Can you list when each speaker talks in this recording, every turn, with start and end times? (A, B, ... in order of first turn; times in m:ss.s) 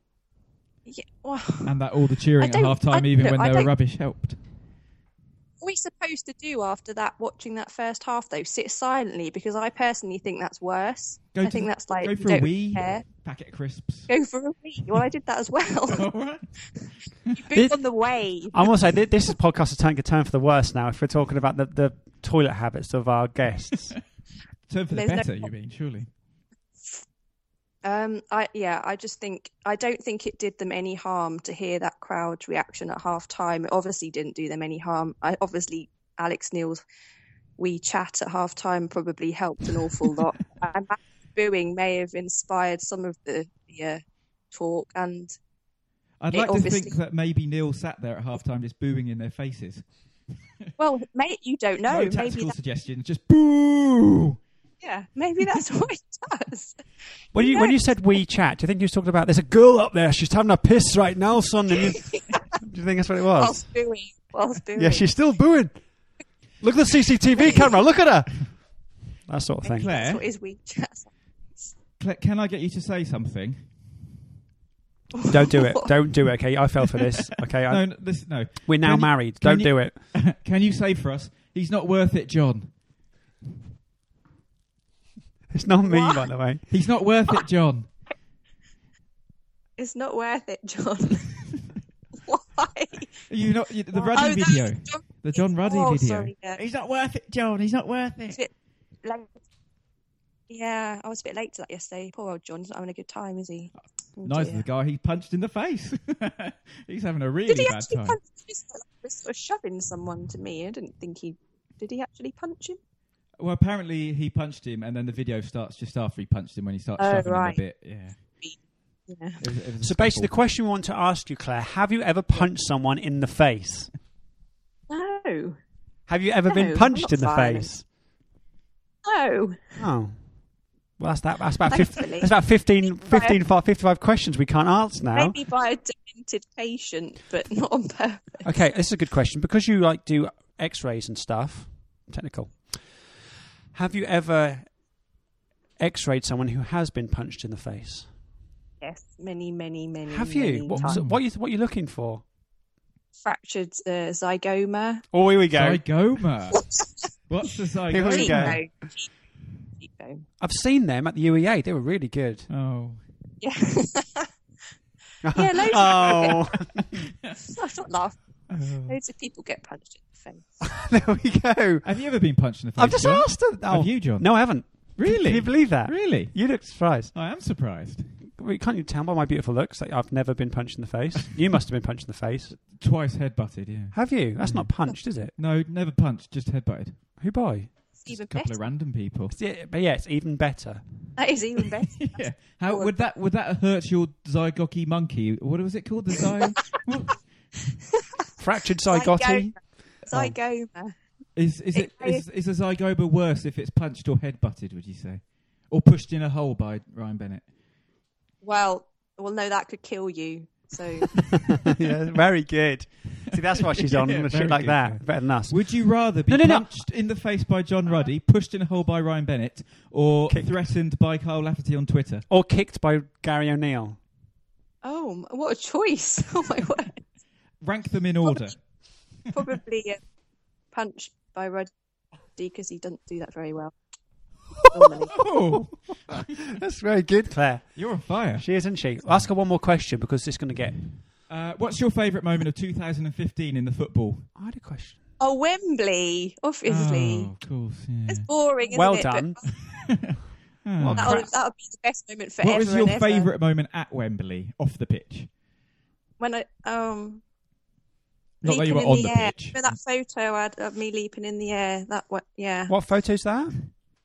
0:00.9-0:01.8 A
0:01.6-0:04.4 B
0:02.4-0:03.7 A
0:05.6-0:13.1 A
0:11.3-0:14.1 B
0:14.1-0:16.1 A
0:15.9-0:16.5 B
0:16.8-0:18.7 A
0:17.5-0:17.8 C
0:18.5-0:24.0 C
0:24.7-0:26.1 B
0:24.9-0:25.5 A
0:27.8-0:36.8 A
0:37.6-0:45.4 A
0:46.2-0:49.9 B
0:46.3-0:47.0 A
0:50.8-0:52.5 A
0:51.9-0:54.4 B
0:54.8-0:56.8 A
0:57.3-1:03.7 C
0:57.4-0:57.8 A
1:03.4-1:05.1 A
1:04.8-1:05.8 C
1:06.6-1:08.7 C
1:09.3-1:09.9 C
1:09.6-1:11.7 A
1:09.8-1:10.2 B
1:12.0-1:13.8 B
1:15.2-1:15.9 A
1:15.2-1:17.9 C
1:17.6-1:22.7 B
1:18.6-1:20.0 C
1:25.5-1:26.6 C
1:25.8-1:26.3 A
1:26.7-1:27.9 B
1:29.8-1:31.5 A
1:32.2-1:33.1 A
1:33.3-1:38.4 B
1:33.9-1:36.6 A
1:39.0-1:39.3 A
1:40.5-1:44.6 A
1:44.2-1:48.2 B
1:47.5-1:52.8 A
1:53.4-1:58.2 B
1:57.0-1:57.6 A
1:59.1-1:59.4 A
1:59.4-2:00.4 B
1:59.8-2:03.9 C
2:04.9-2:05.6 A
2:06.1-2:07.8 C
2:06.5-2:07.7 A
2:09.0-2:09.6 A
2:09.8-2:10.2 C
2:11.0-2:15.4 C
2:11.7-2:12.3 A
2:12.9-2:13.4 A
2:15.2-2:18.5 A
2:18.4-2:22.8 C
2:23.7-2:24.7 C
2:25.8-2:28.1 C
2:28.8-2:31.0 A
2:30.1-2:32.2 C
2:30.7-2:31.2 B
2:33.2-2:35.0 A
2:35.1-2:35.8 C
2:35.5-2:36.6 B
2:36.6-2:36.9 A
2:37.3-2:38.6 B
2:37.9-2:38.6 C
2:38.1-2:39.1 A
2:39.8-2:40.2 A
2:40.4-2:42.5 C
2:42.5-2:43.0 B
2:43.4-2:44.3 A
2:45.2-2:46.9 C
2:45.3-2:46.5 A
2:47.3-2:48.2 A
2:48.5-2:49.0 B
2:48.8-2:50.5 A
2:50.6-2:51.9 C
2:51.8-2:56.4 B
2:52.8-2:57.1 C
2:57.1-2:58.1 B
2:58.3-3:02.6 C
3:02.6-3:04.7 B
3:03.9-3:05.3 C
3:05.4-3:07.0 B
3:07.2-3:07.7 C
3:08.0-3:08.6 A
3:08.1-3:09.4 B
3:09.3-3:10.8 C
3:11.2-3:12.9 A
3:12.0-3:17.2 B
3:18.4-3:19.6 C
3:18.9-3:21.0 A
3:21.4-3:27.5 B
3:21.7-3:22.2 A
3:28.4-3:31.2 A
3:31.5-3:35.6 C
3:33.5-3:42.3 B
3:36.3-3:36.7 C
3:42.3-3:44.0 C
3:44.8-3:47.0 A
3:47.6-3:48.6 B
3:49.3-3:50.0 A
3:50.7-3:51.7 A
3:52.4-3:53.7 A
3:54.6-3:55.2 A
3:55.0-3:56.2 B
3:56.1-3:57.8 C
3:57.8-3:58.5 B
3:58.4-4:00.8 C
3:59.0-3:59.3 B
4:01.3-4:04.3 B
4:04.4-4:05.0 C
4:05.2-4:07.3 A
4:06.7-4:08.3 B
4:08.1-4:09.5 A
4:08.7-4:09.4 C
4:09.7-4:11.2 B
4:10.8-4:11.3 C
4:11.0-4:13.3 A
4:12.4-4:15.3 B
4:16.2-4:17.2 A
4:18.4-4:19.6 B
4:18.4-4:22.7 A
4:22.7-4:23.6 C